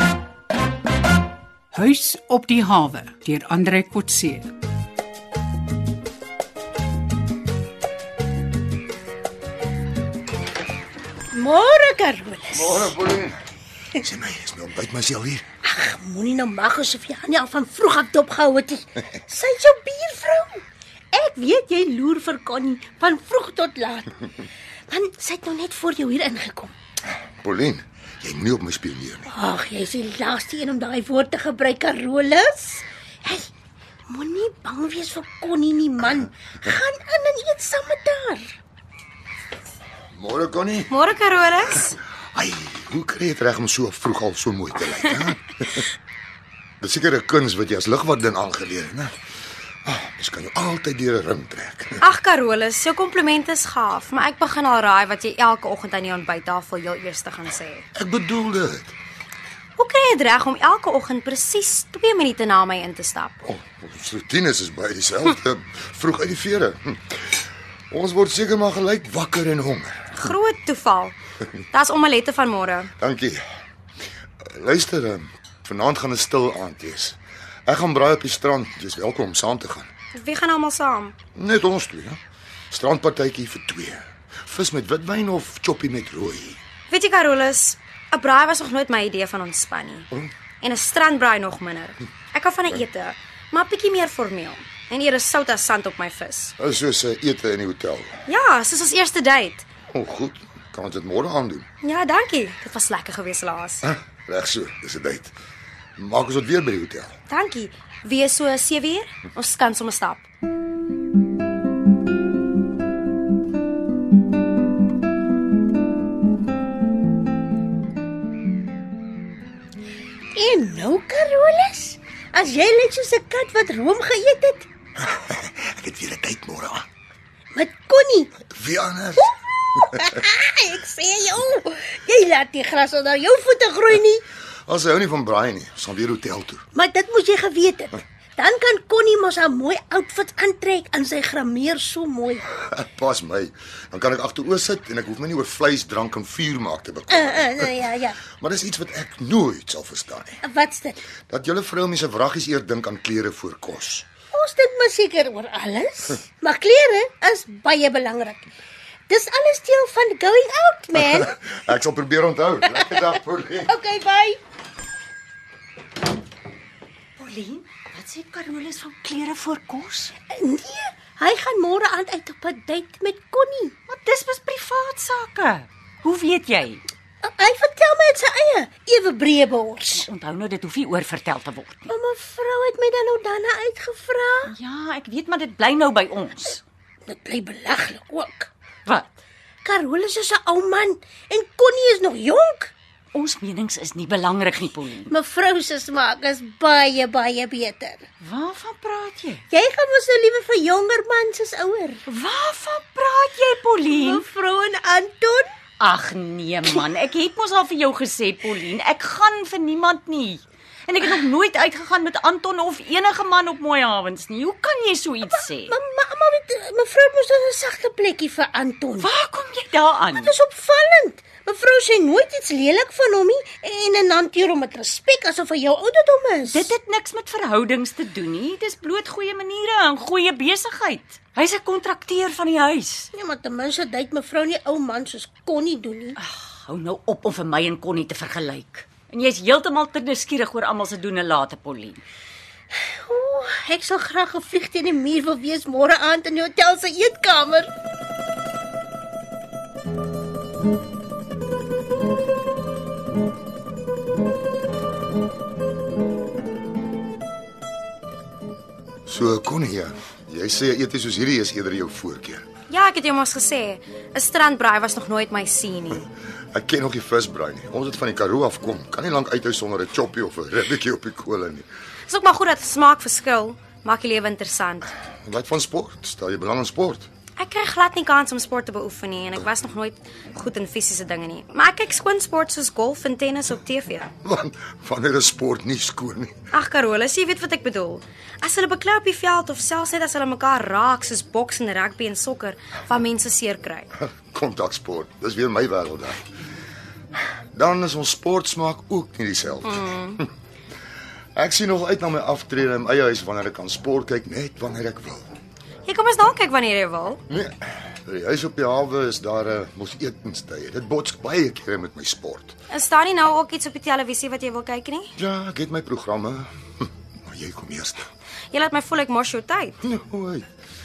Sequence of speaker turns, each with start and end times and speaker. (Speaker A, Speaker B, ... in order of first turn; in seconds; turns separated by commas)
Speaker A: 1.7-4.5, Speaker B: 11.3-12.9, Speaker C: 12.5-13.4, Speaker C: 14.0-15.4, Speaker B: 15.7-24.1, Speaker B: 24.9-26.7, Speaker C: 27.4-29.3, Speaker B: 29.3-33.5, Speaker B: 34.1-38.5, Speaker C: 40.1-41.0, Speaker D: 40.9-42.0, Speaker C: 42.4-45.9, Speaker C: 46.8-49.1, Speaker C: 49.9-52.0, Speaker D: 52.0-57.9, Speaker C: 58.0-58.9, Speaker D: 59.8-63.4, Speaker C: 63.5-67.2, Speaker C: 67.9-70.3, Speaker D: 70.1-71.2, Speaker D: 71.7-72.9, Speaker C: 73.0-73.4, Speaker C: 74.4-79.9, Speaker D: 80.1-81.2, Speaker C: 81.3-82.2, Speaker C: 82.7-86.6, Speaker D: 86.9-90.1, Speaker D: 90.6-96.5, Speaker C: 96.6-98.2, Speaker D: 98.3-99.7, Speaker C: 99.9-101.7, Speaker D: 101.8-103.9, Speaker C: 103.8-105.3, Speaker C: 106.0-107.1, Speaker D: 107.3-110.3, Speaker B: 120.3-124.7, Speaker C: 125.1-126.9, Speaker B: 127.5-128.3, Speaker C: 128.5-129.3, Speaker B: 129.8-134.2, Speaker C: 134.7-136.6, Speaker B: 136.7-142.5, Speaker C: 142.6-147.8, Speaker B: 147.1-148.2, Speaker C: 148.4-150.4, Speaker B: 150.4-151.0, Speaker C: 151.3-154.1, Speaker B: 154.3-158.5, Speaker B: 159.1-161.3, Speaker C: 161.1-163.7, Speaker B: 163.7-164.4, Speaker E: 167.2-170.1, Speaker B: 170.3-173.7, Speaker E: 173.9-176.8, Speaker B: 177.2-180.1, Speaker E: 180.0-181.9, Speaker B: 181.9-184.5, Speaker E: 184.5-186.6, Speaker B: 187.1-188.5, Speaker B: 189.6-192.7, Speaker E: 193.1-195.1, Speaker B: 195.1-198.1, Speaker E: 198.2-199.4, Speaker B: 199.5-202.0, Speaker E: 202.1-204.2, Speaker B: 203.9-205.5, Speaker E: 205.8-215.7, Speaker B: 215.4-219.1, Speaker E: 219.0-220.3, Speaker B: 220.1-226.7, Speaker E: 226.5-233.1, Speaker B: 233.1-236.2, Speaker E: 236.2-242.0, Speaker B: 242.8-247.7, Speaker C: 259.1-262.5, Speaker D: 262.7-266.1, Speaker C: 266.5-271.7, Speaker D: 272.1-274.9, Speaker C: 275.2-277.1, Speaker D: 277.4-284.1, Speaker C: 284.2-286.4, Speaker D: 286.5-293.9, Speaker C: 294.0-296.2, Speaker C: 297.5-300.2, Speaker D: 299.6-300.2, Speaker C: 301.4-305.3, Speaker D: 305.9-307.2, Speaker C: 307.3-312.5, Speaker D: 312.7-315.1, Speaker C: 315.2-316.5, Speaker C: 317.2-318.1, Speaker D: 318.5-319.8, Speaker C: 319.8-320.5